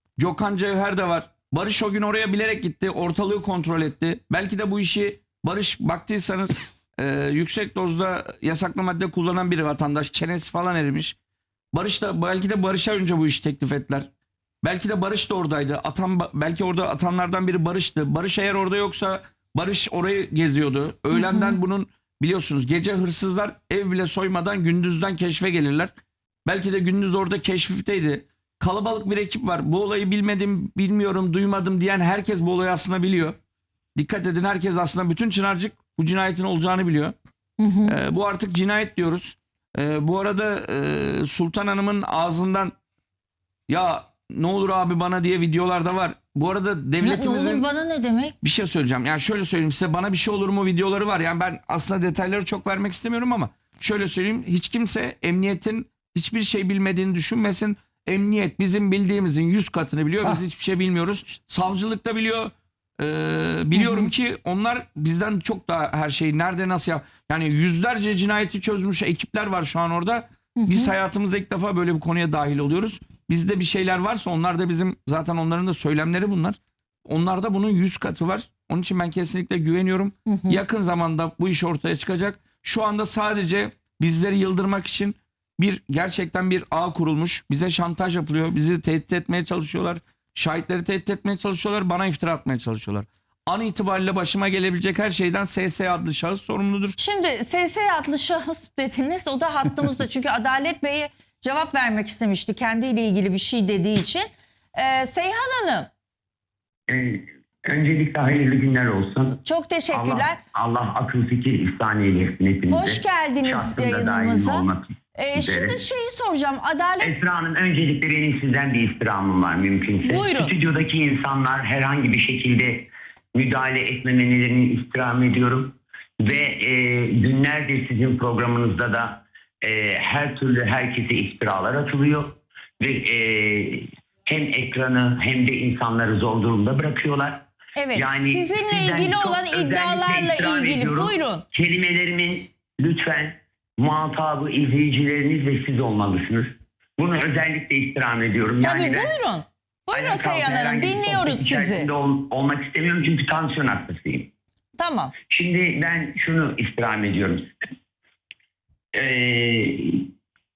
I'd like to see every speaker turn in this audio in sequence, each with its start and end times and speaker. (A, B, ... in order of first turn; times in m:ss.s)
0:00.2-0:11.2 A
0:11.7-0:14.1 A
0:14.6-0:25.9 A
0:21.1-0:21.6 B
0:26.4-0:33.4 A
0:33.9-0:37.2 A
0:37.6-0:37.9 B
0:37.8-0:42.7 A
0:43.7-0:47.6 A
0:47.0-0:48.4 B
0:48.4-1:37.0 A
1:03.7-1:04.1 B
1:10.6-1:10.9 B
1:20.3-1:20.6 B
1:37.0-1:45.9 B
1:46.9-1:49.4 C
1:49.4-1:50.4 B
1:49.9-1:55.8 C
1:52.7-1:57.1 B
1:57.0-2:17.4 C
2:00.0-2:00.5 B
2:17.8-2:21.4 B
2:17.9-2:29.1 C
2:28.6-2:31.9 B
2:29.9-2:34.3 C
2:34.8-2:35.1 B
2:35.3-2:37.5 C
2:38.9-2:40.0 C